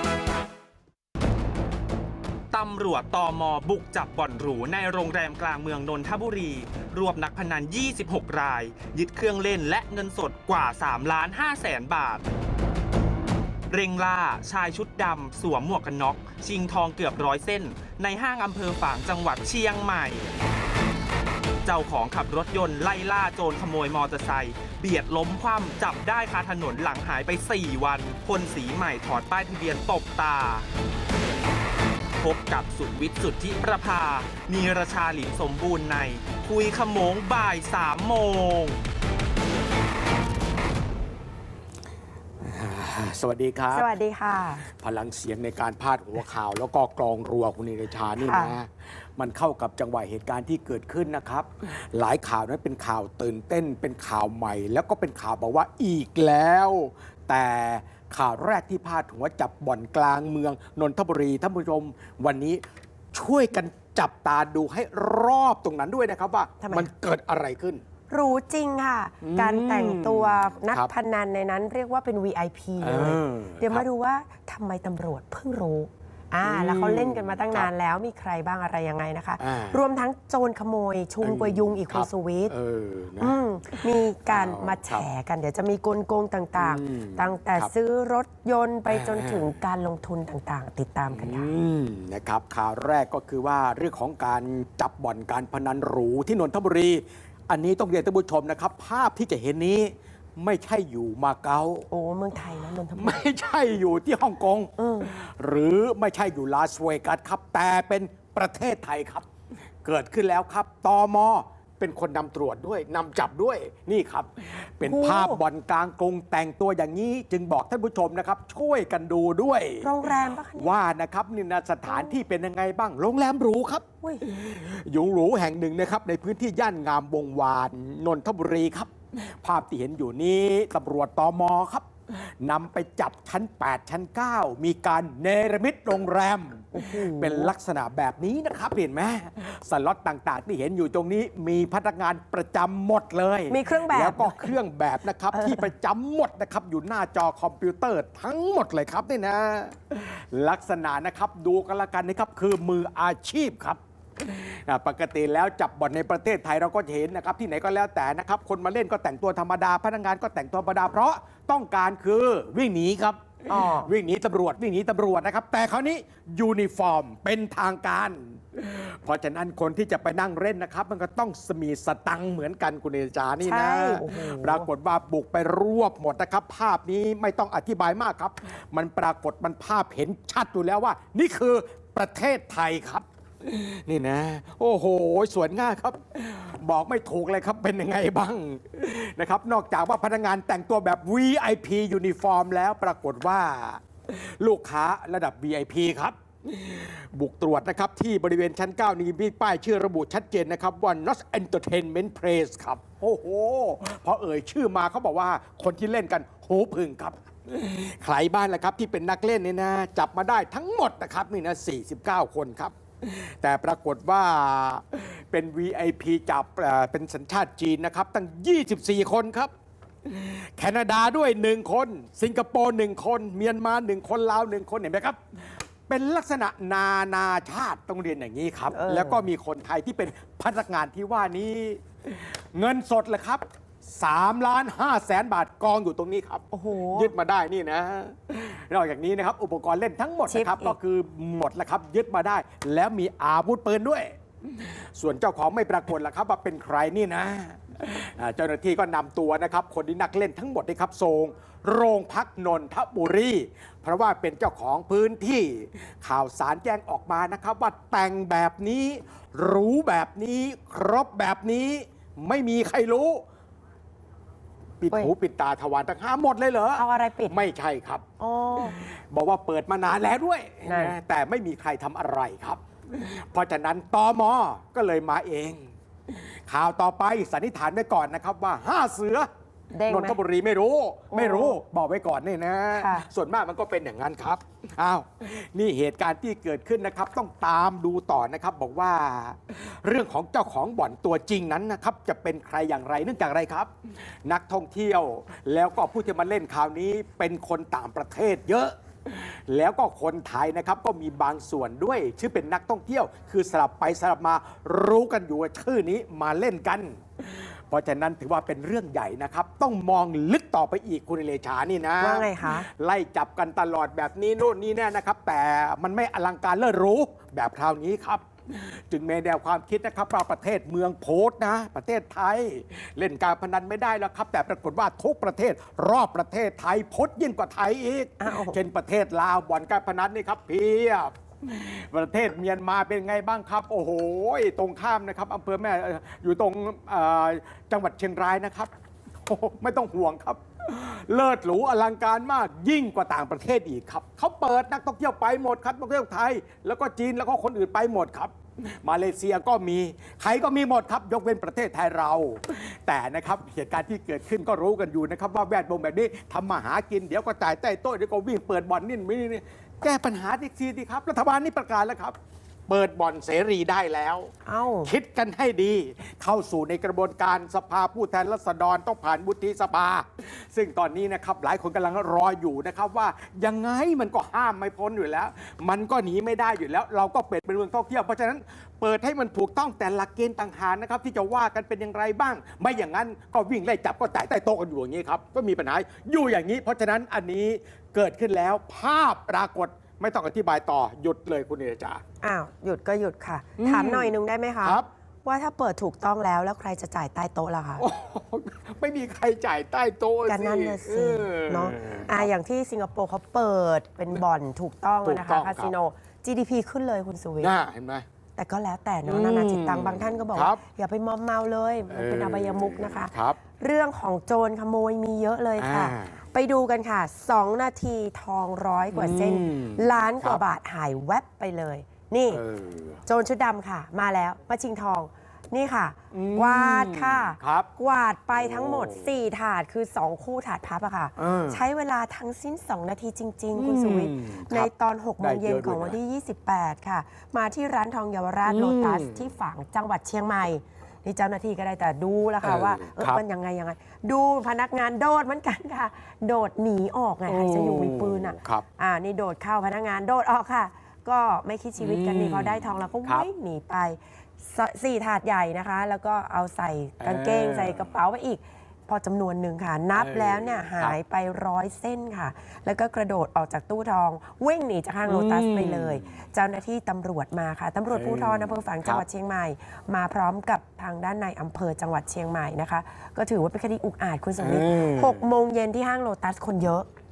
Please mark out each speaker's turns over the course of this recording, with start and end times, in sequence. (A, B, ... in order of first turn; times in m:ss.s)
0:02.5-0:12.2 A
0:13.7-0:20.3 A
0:21.6-0:30.6 A
0:32.2-0:38.8 A
0:42.4-0:43.9 B
0:43.7-0:44.6 C
0:44.6-1:02.6 B
0:48.2-0:48.6 C
1:03.1-1:07.8 B
1:06.6-1:06.9 C
1:08.1-1:22.5 C
1:09.2-1:10.9 B
1:12.8-1:13.8 B
1:16.4-1:17.7 B
1:19.4-1:19.8 B
1:21.2-1:25.0 B
1:23.2-1:31.5 C
1:26.6-1:27.7 B
1:28.9-1:29.5 B
1:31.1-1:41.9 B
1:41.9-1:43.2 C
1:42.9-1:49.3 B
1:44.8-1:45.1 C
1:49.8-3:39.5 B
1:54.8-1:55.4 C
1:59.8-2:00.7 C
2:16.7-2:17.5 C
2:23.5-2:24.6 C
2:25.3-2:25.7 C
2:43.5-2:43.9 C
2:53.4-2:54.7 C
3:40.0-3:45.2 B
3:45.9-4:23.2 B
3:48.7-3:49.2 C
3:56.5-3:57.1 C
4:00.3-4:00.8 C
4:24.8-4:28.0 B
4:26.8-4:27.4 C
4:28.2-4:28.8 C
4:28.6-4:39.3 B
4:30.6-4:31.0 C
4:39.7-4:40.2 C
4:39.9-4:53.7 B
4:41.1-4:41.6 C
4:42.7-4:43.1 C
4:54.2-5:38.7 B
5:12.0-5:12.7 C
5:28.2-5:28.6 C
5:39.2-6:02.2 B
6:02.7-6:04.3 B
6:04.4-6:04.9 C
6:04.8-6:32.0 B
6:32.2-6:37.9 C
6:33.6-6:34.9 B
6:37.8-6:42.3 B
6:40.3-6:47.5 C
6:45.0-6:45.7 B
6:47.4-6:48.0 B
6:48.4-7:02.4 C
6:49.0-6:50.6 B
6:51.9-6:53.4 B
6:55.6-6:56.2 B
6:58.9-7:00.4 B
7:02.3-7:03.0 B
7:03.1-7:56.9 C
7:06.1-7:07.7 B
7:08.3-7:09.1 B
7:11.2-7:11.6 B
7:13.5-7:16.0 B
7:18.5-7:19.3 B
7:22.4-7:23.2 B
7:27.3-7:28.6 B
7:31.8-7:33.3 B
7:37.0-7:37.9 B
7:40.0-7:41.0 B
7:45.1-7:46.2 B
7:47.9-7:49.0 B
7:54.4-7:55.3 B